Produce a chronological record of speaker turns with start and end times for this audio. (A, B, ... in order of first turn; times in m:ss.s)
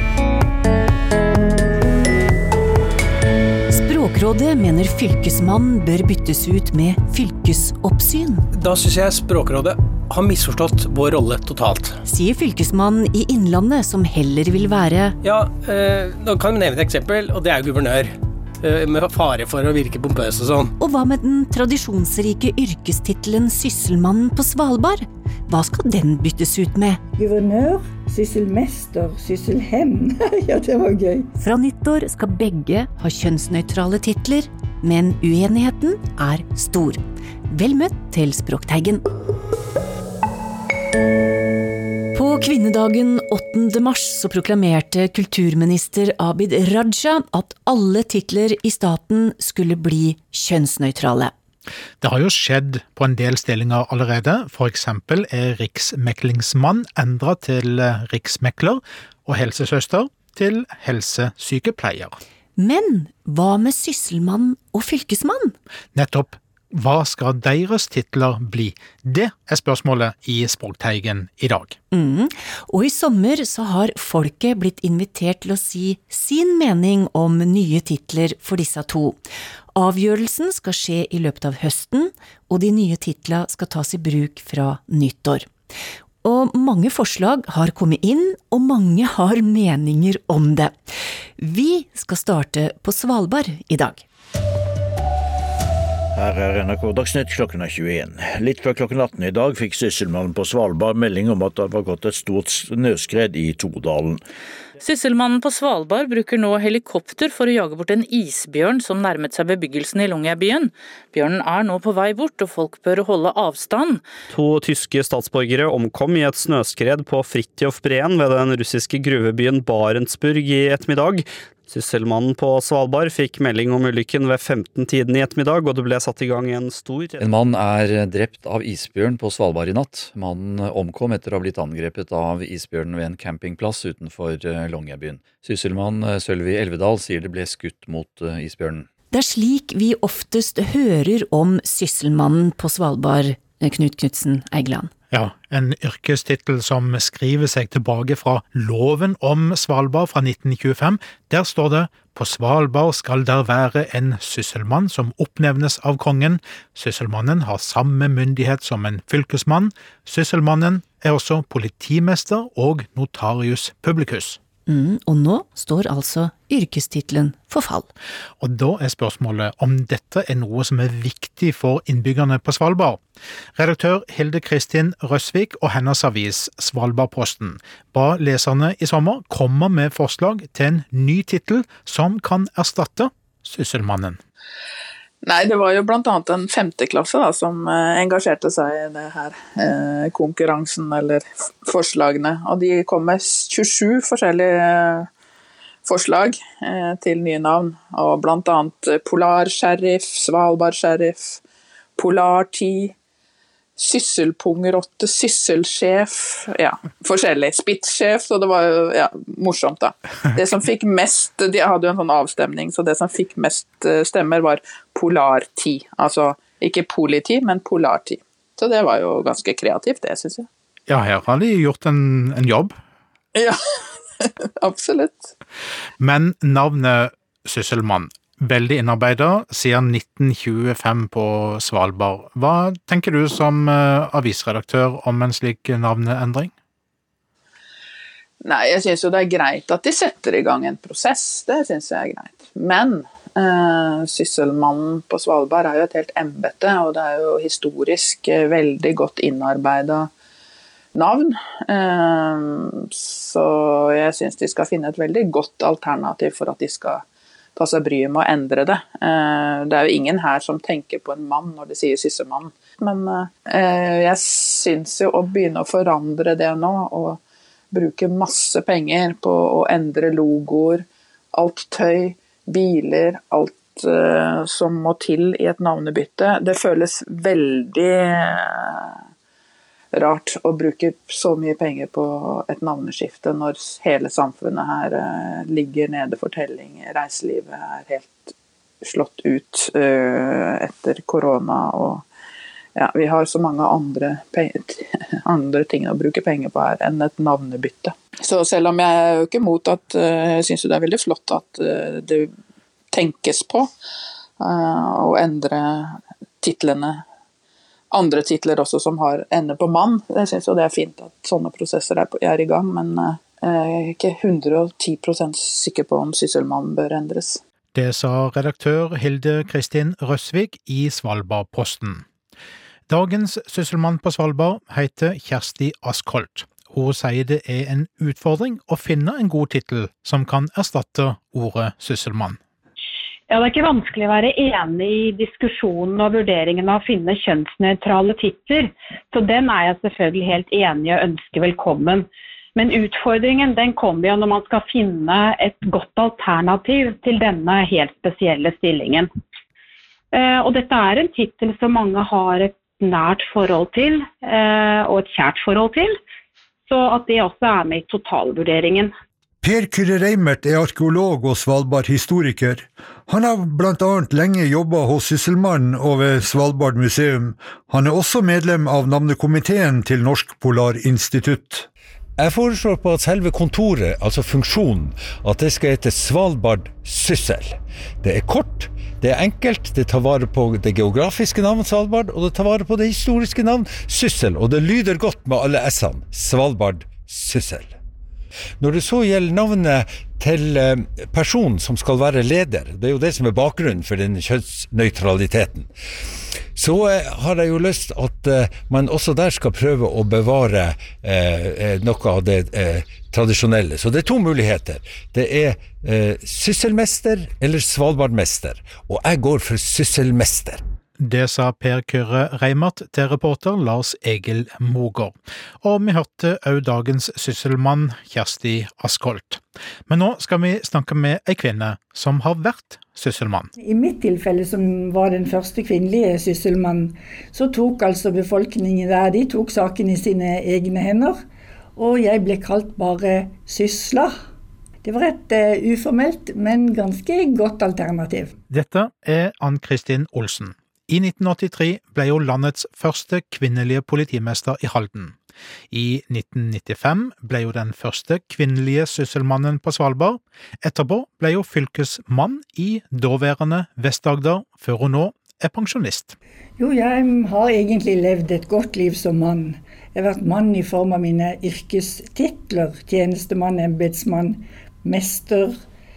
0:03.7-0:08.5 A
0:08.6-0:12.0 B
0:12.0-0:15.2 A
0:15.2-0:20.7 B
0:20.8-0:27.0 A
0:27.2-0:31.3 C
0:31.4-0:39.0 A
0:42.1-0:51.3 A
0:52.0-1:02.2 D
1:02.6-1:05.5 A
1:05.9-1:11.8 D
1:11.9-1:19.2 A
1:19.7-1:25.5 A
1:26.2-1:30.8 A
1:31.4-1:34.0 A
1:36.1-1:44.2 E
1:44.8-1:54.0 F
1:54.3-2:07.2 G
2:07.2-2:18.9 H
2:19.1-2:24.9 A
2:25.1-2:44.4 D
2:44.7-2:47.9 A
2:48.4-2:53.0 D
2:53.6-3:04.2 D
3:05.2-3:15.1 I
3:15.8-3:21.4 I
3:22.0-3:22.9 I
3:23.8-3:40.5 I
3:40.9-3:42.8 D
3:44.2-3:45.3 I
3:46.0-3:56.5 D
3:58.4-4:10.1 I
4:10.9-4:17.0 I
4:17.6-4:27.2 I
4:27.7-4:38.9 I
4:39.9-4:52.0 I
4:52.8-5:02.3 I
5:02.9-5:03.7 I
5:04.4-5:07.0 I
5:07.9-5:17.4 I
5:17.7-5:22.0 D
5:22.9-5:32.4 D
5:33.3-5:49.1 J
5:50.1-5:56.0 J
5:56.7-5:58.9 J
5:59.4-6:11.7 K
6:12.2-6:27.7 L
6:28.6-6:35.7 L
6:36.5-6:50.6 L
6:51.0-7:03.5 D
7:03.6-7:11.2 C
7:11.8-7:14.2 C
7:14.8-7:18.3 C
7:18.5-7:25.2 D
7:25.7-7:36.2 D
7:36.6-7:45.6 C